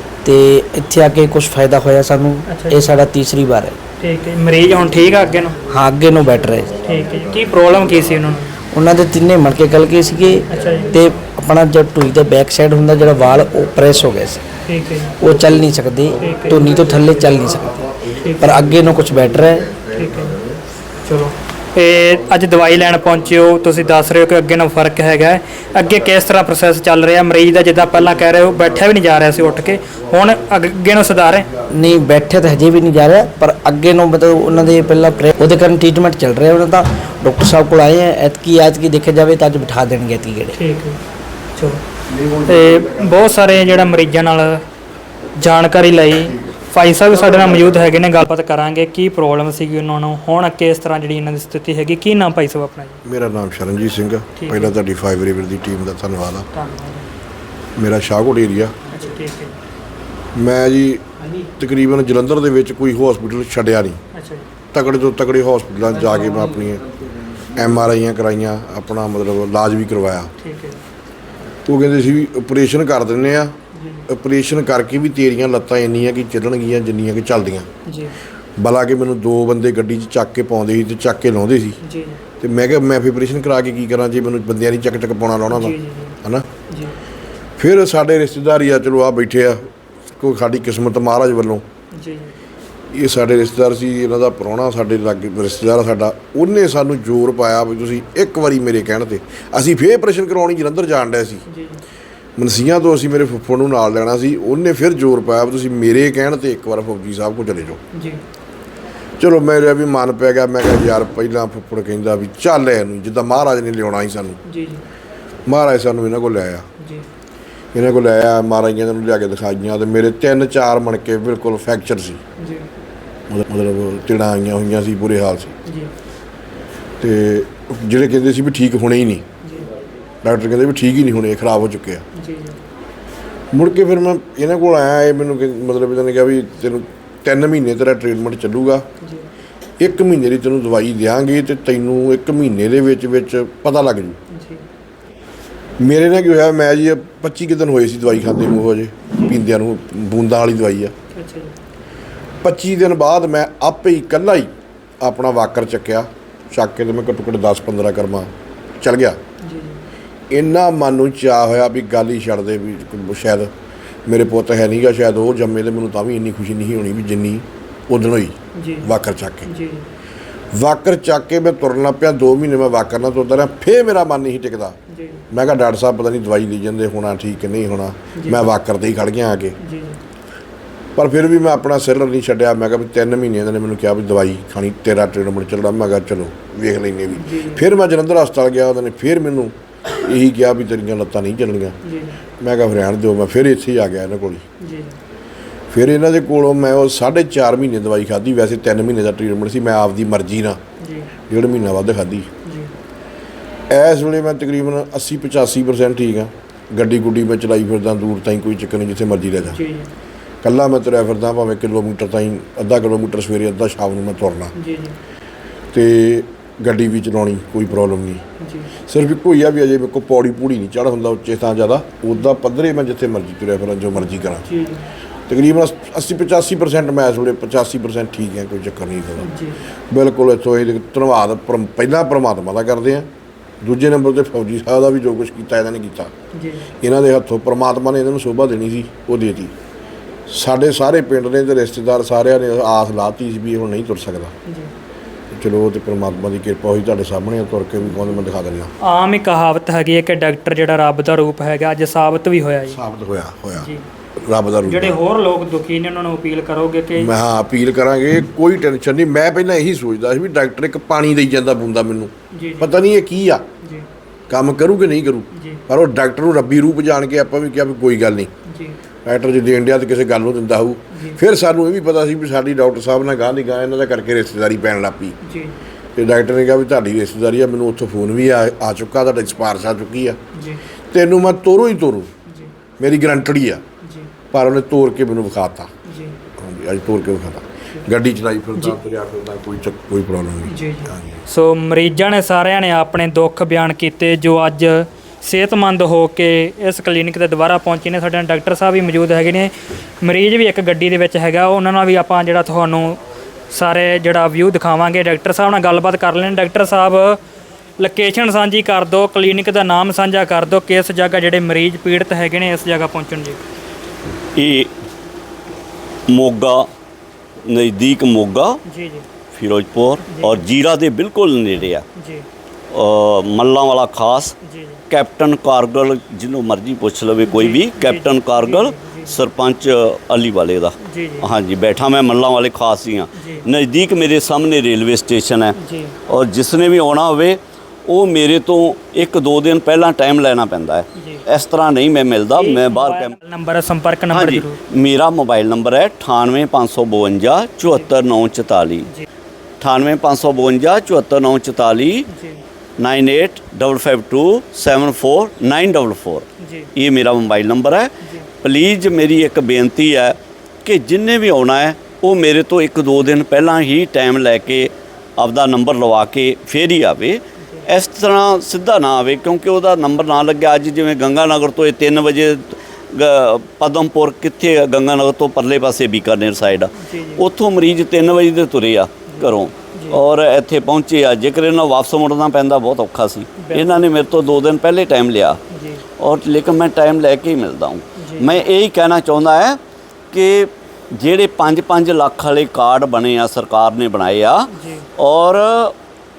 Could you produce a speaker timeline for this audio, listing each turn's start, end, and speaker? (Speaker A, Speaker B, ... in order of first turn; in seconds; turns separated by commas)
Speaker A: 0.2-3.8, Speaker B: 2.5-2.8, Speaker B: 4.0-5.6, Speaker A: 5.7-6.8, Speaker B: 6.8-8.6, Speaker A: 8.7-14.4, Speaker B: 10.5-10.9, Speaker B: 14.7-15.2, Speaker A: 15.2-19.8, Speaker B: 16.2-17.0, Speaker B: 18.2-18.6, Speaker B: 19.9-20.4, Speaker B: 21.0-31.5, Speaker A: 31.7-40.5, Speaker B: 40.5-41.0, Speaker B: 41.5-41.8, Speaker B: 42.4-44.6, Speaker B: 45.4-53.0, Speaker C: 53.0-56.5, Speaker B: 54.4-54.8, Speaker B: 56.5-57.1, Speaker C: 57.8-58.7, Speaker B: 58.9-59.6, Speaker C: 60.4-64.0, Speaker B: 64.1-64.5, Speaker C: 64.7-66.8, Speaker C: 67.5-70.3, Speaker B: 70.4-70.8, Speaker C: 71.7-73.5, Speaker B: 73.7-74.0, Speaker C: 74.1-77.7, Speaker B: 77.8-78.1, Speaker C: 78.6-81.8, Speaker B: 81.8-82.2, Speaker C: 82.4-86.5, Speaker B: 85.5-86.2, Speaker B: 86.7-87.0, Speaker C: 87.6-91.6, Speaker B: 91.9-92.3, Speaker C: 92.9-101.4, Speaker B: 101.5-101.8, Speaker C: 102.4-107.8, Speaker B: 107.9-108.2, Speaker C: 109.2-114.4, Speaker B: 114.5-114.8, Speaker C: 115.5-116.7, Speaker B: 116.8-117.1, Speaker C: 117.7-122.2, Speaker B: 122.4-122.7, Speaker C: 123.3-125.5, Speaker B: 125.7-125.9, Speaker C: 127.0-129.2, Speaker B: 129.4-129.7, Speaker C: 130.2-132.0, Speaker B: 132.1-132.6, Speaker C: 133.5-138.9, Speaker B: 139.0-139.2, Speaker C: 139.8-144.2, Speaker B: 144.3-144.6, Speaker C: 145.8-150.9, Speaker B: 151.1-151.5, Speaker C: 152.4-159.2, Speaker B: 159.4-159.8, Speaker C: 160.3-163.5, Speaker C: 164.1-169.5, Speaker B: 168.5-168.9, Speaker B: 169.5-169.9, Speaker C: 170.5-174.8, Speaker B: 174.9-175.2, Speaker C: 175.3-179.6, Speaker B: 178.2-178.4, Speaker B: 179.6-180.0, Speaker C: 181.0-191.8, Speaker B: 187.2-187.6, Speaker B: 191.8-192.2, Speaker C: 192.4-194.4, Speaker B: 194.6-195.0, Speaker C: 195.7-200.6, Speaker B: 200.8-201.1, Speaker C: 201.3-202.3, Speaker B: 202.4-202.7, Speaker C: 203.7-209.6, Speaker B: 209.5-209.9, Speaker C: 210.4-214.5, Speaker B: 214.6-215.0, Speaker C: 215.7-218.2, Speaker B: 218.4-218.7, Speaker C: 218.9-224.5, Speaker B: 224.5-224.9, Speaker C: 225.3-229.3, Speaker B: 229.2-229.6, Speaker C: 229.9-233.1, Speaker C: 233.6-236.1, Speaker B: 236.3-236.7, Speaker C: 236.8-239.5, Speaker C: 240.3-244.3, Speaker B: 244.4-244.7, Speaker C: 245.3-248.7, Speaker B: 248.8-252.8, Speaker C: 252.7-255.0, Speaker B: 253.5-253.8, Speaker B: 254.7-257.1, Speaker C: 257.0-263.5, Speaker B: 262.3-262.7, Speaker B: 263.6-263.9, Speaker C: 264.3-268.3, Speaker B: 265.3-265.6, Speaker B: 268.5-268.8, Speaker C: 269.0-275.1, Speaker B: 270.9-271.2, Speaker B: 275.2-275.6, Speaker C: 276.0-280.2, Speaker B: 280.3-280.6, Speaker C: 280.9-282.1, Speaker B: 282.3-282.5, Speaker C: 282.8-283.6, Speaker B: 283.8-284.1, Speaker C: 284.3-285.7, Speaker B: 285.9-286.2, Speaker C: 286.4-291.2, Speaker B: 290.5-307.2, Speaker B: 307.8-313.4, Speaker D: 314.4-314.7, Speaker D: 316.1-316.7, Speaker D: 317.5-318.6, Speaker B: 318.6-319.1, Speaker D: 319.3-321.9, Speaker B: 320.1-320.4, Speaker B: 322.0-322.3, Speaker D: 322.7-324.4, Speaker B: 324.4-324.8, Speaker D: 324.9-335.6, Speaker B: 327.2-329.2, Speaker B: 330.8-331.3, Speaker B: 333.1-333.5, Speaker B: 335.6-336.0, Speaker D: 336.1-343.1, Speaker B: 341.0-341.2, Speaker B: 342.4-344.6, Speaker D: 344.1-348.9, Speaker D: 349.6-352.1, Speaker B: 352.1-352.4, Speaker D: 352.8-385.4, Speaker B: 356.4-356.7, Speaker B: 358.0-358.3, Speaker B: 367.4-367.7, Speaker B: 376.8-377.2, Speaker B: 379.1-380.0, Speaker B: 383.4-383.9, Speaker B: 385.5-385.9, Speaker D: 386.0-389.6, Speaker B: 388.0-388.4, Speaker D: 390.1-395.8, Speaker B: 394.5-394.9